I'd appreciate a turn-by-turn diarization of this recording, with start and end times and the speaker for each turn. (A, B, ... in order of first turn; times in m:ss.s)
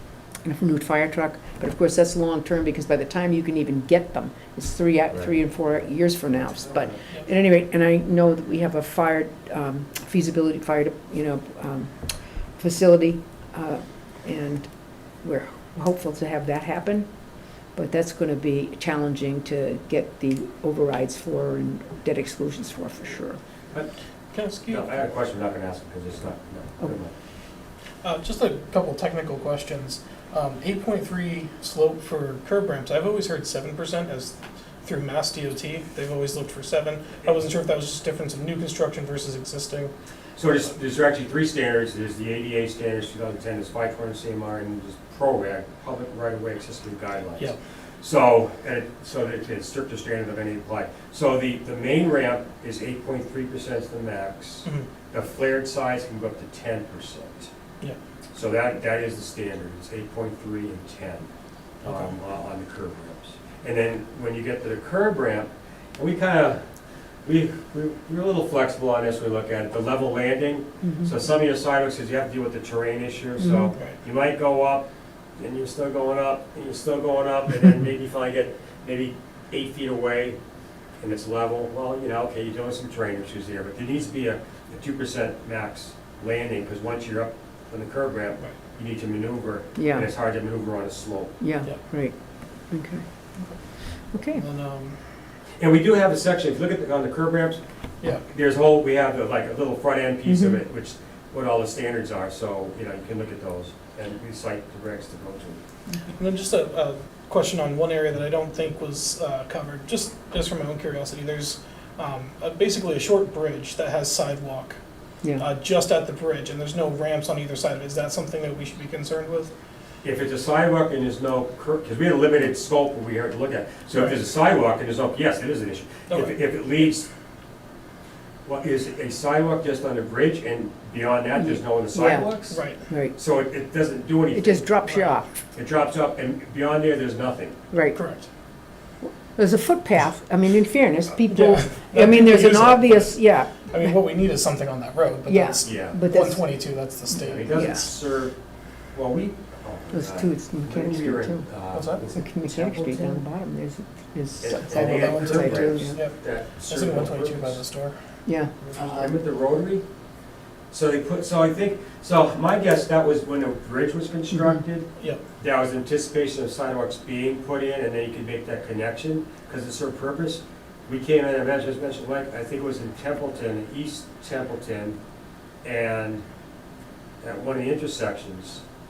0:00.4-0:11.9 A
0:12.6-0:14.7 A
0:15.2-0:17.1 A
0:17.7-0:23.4 A
0:24.3-0:24.9 B
0:24.7-0:27.1 C
0:28.0-0:39.9 B
0:40.4-0:57.5 C
0:58.3-1:01.3 C
1:01.8-1:02.1 B
1:01.8-1:06.6 C
1:07.2-1:14.9 C
1:10.8-1:11.1 A
1:13.4-1:13.7 A
1:15.4-1:20.4 C
1:21.0-1:31.3 C
1:29.8-1:30.1 A
1:31.4-1:32.2 A
1:32.7-1:33.0 A
1:34.1-1:34.4 A
1:34.3-1:35.0 B
1:35.6-1:37.6 C
1:38.3-1:45.6 C
1:40.2-1:40.6 A
1:46.1-1:54.8 B
1:55.2-1:55.5 A
1:55.4-1:59.5 B
2:00.0-2:07.1 C
2:06.1-2:06.4 B
2:08.4-2:12.6 C
2:11.4-2:12.3 A
2:12.5-2:12.8 B
2:12.9-2:13.1 A
2:13.1-2:14.6 C
2:14.3-2:15.3 A
2:14.8-2:15.2 B
2:15.5-2:17.6 C
2:17.7-2:18.0 A
2:17.9-2:18.3 B
2:19.0-2:23.9 A
2:21.3-2:27.7 B
2:25.3-2:26.5 A
2:25.6-2:26.0 C
2:27.2-2:28.3 C
2:27.5-2:27.8 A
2:28.9-2:33.2 C
2:29.9-2:31.4 A
2:31.7-2:32.0 B
2:32.0-2:36.0 A
2:34.4-2:37.6 C
2:34.7-2:38.0 B
2:38.2-2:39.1 A
2:38.8-2:39.8 C
2:40.7-2:55.0 C
2:55.6-2:56.2 C
2:57.2-2:58.6 C